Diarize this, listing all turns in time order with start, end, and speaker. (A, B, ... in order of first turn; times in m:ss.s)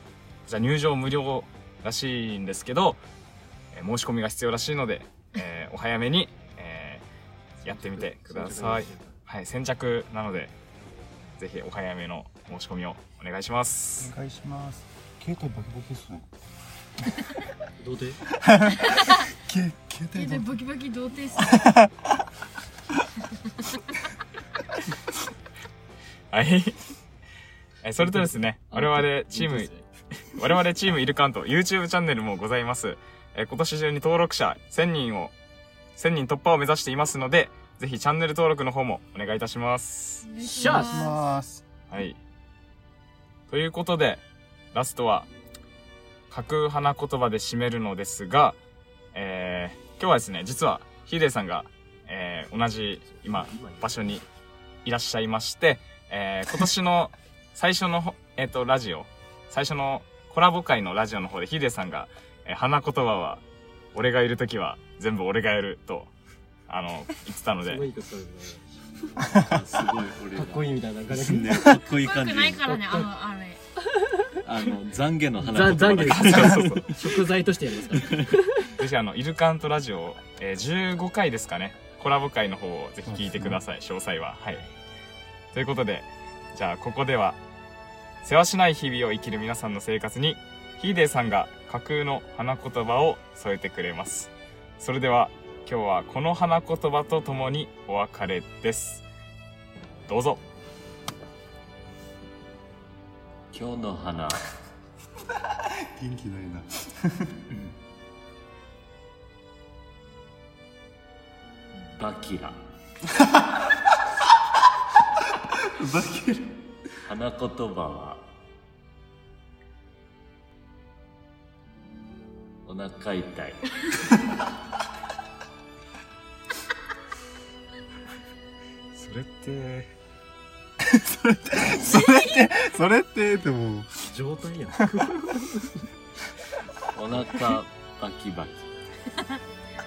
0:00.4-0:03.0 A
0:03.7-0:07.0 A
0:07.6-0:09.2 B
0:07.6-0:10.5 A
0:11.4-0:14.1 A
0:14.0-0:16.2 C
0:17.8-0:18.2 B
0:18.4-0:20.5 C
0:18.7-0:19.3 D
0:20.1-0:21.6 D
0:21.4-0:21.9 C
0:26.3-0:26.8 A
0:27.8-0:29.7 A
0:28.0-0:29.8 B
0:30.4-0:35.3 A
0:36.0-0:40.2 A
0:40.2-0:41.2 D
0:40.4-0:41.1 B
0:40.6-0:41.6 C
0:41.9-0:42.2 A
0:43.5-0:45.3 A
0:46.3-0:48.6 A
0:49.1-0:54.2 A
0:53.0-0:54.1 B
0:54.8-1:03.4 A
1:03.9-1:06.1 A
1:06.7-1:07.8 A
1:07.6-1:09.3 B
1:09.2-1:13.0 E
1:10.3-1:11.8 B
1:11.4-1:11.8 C
1:11.9-1:13.6 D
1:14.4-1:16.9 E
1:15.4-1:18.7 B
1:16.1-1:16.9 A
1:17.9-1:18.4 E
1:18.8-1:24.7 A
1:23.0-1:23.6 C
1:25.5-1:27.4 A
1:28.2-1:39.0 A
1:40.1-1:40.4 A
1:43.5-1:44.4 E
1:45.6-1:47.3 C
1:52.0-1:52.6 E
1:55.6-1:56.5 C
1:57.0-1:58.2 E
2:02.6-2:03.8 E
2:08.9-2:09.9 A
2:10.8-2:13.9 C
2:11.8-2:12.4 D
2:14.0-2:15.8 B
2:16.9-2:18.7 E
2:19.1-2:19.4 D